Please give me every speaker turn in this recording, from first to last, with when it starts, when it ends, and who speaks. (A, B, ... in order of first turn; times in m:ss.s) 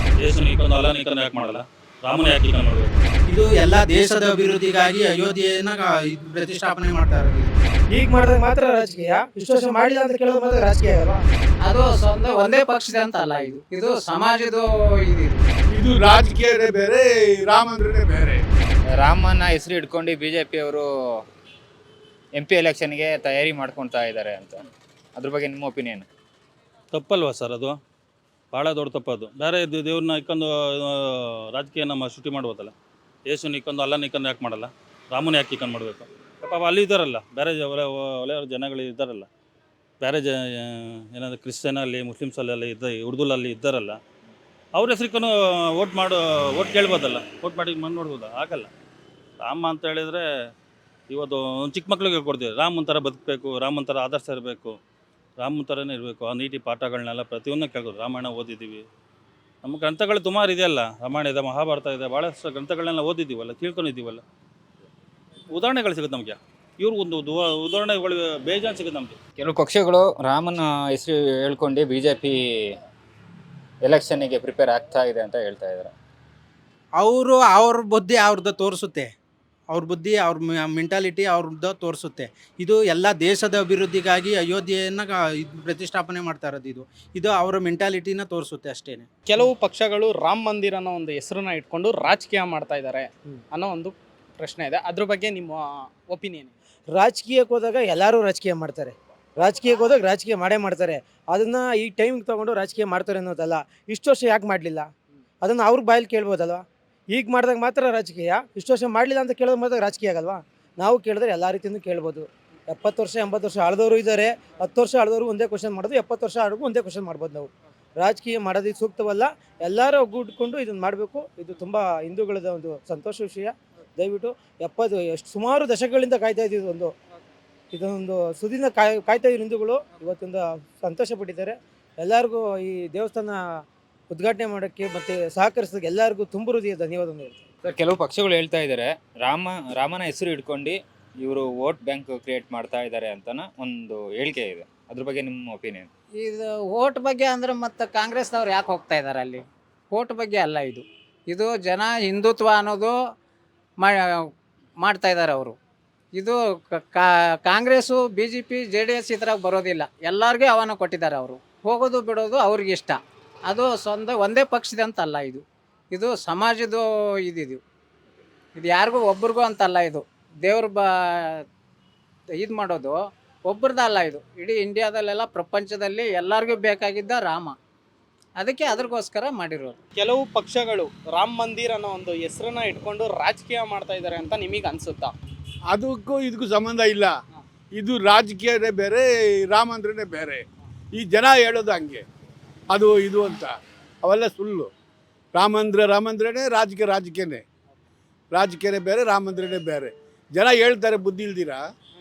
0:00.2-0:03.0 A
0:03.3-0:07.5 B
0:07.9-0:11.2 C
0:11.6-0:15.4 D
0:15.7-0:18.4 E
0:18.9-0:20.9 F
0:22.4-0:24.6 F
0:25.2-0:26.1 F
0:26.9-0:27.8 A
0:28.5-0:32.7 A
0:33.3-0:39.3 A
0:40.0-0:44.0 A
0:44.8-0:48.7 A
0:49.4-0:50.2 A
0:51.1-0:54.7 A
0:55.4-0:58.8 A
0:59.6-1:04.2 A
1:05.5-1:09.2 A
1:09.4-1:12.7 F
1:13.8-1:15.9 F
1:17.0-1:19.1 B
1:19.7-1:29.1 B
1:29.2-1:36.5 G
1:36.9-1:44.9 C
1:45.4-2:06.9 C
2:07.7-2:13.6 C
2:14.1-2:17.4 C
2:17.6-2:25.9 F
2:26.2-2:32.9 D
2:33.8-2:34.2 D
2:34.8-2:35.6 D
2:36.1-2:43.0 D
2:43.5-2:47.6 D
2:48.6-2:51.4 D
2:52.4-2:57.5 D
2:58.4-2:59.8 D
3:00.0-3:05.1 G
3:05.7-3:07.1 E
3:07.8-3:10.4 E
3:10.9-3:12.0 E
3:12.7-3:14.7 E
3:15.3-3:17.4 E
3:18.3-3:21.6 E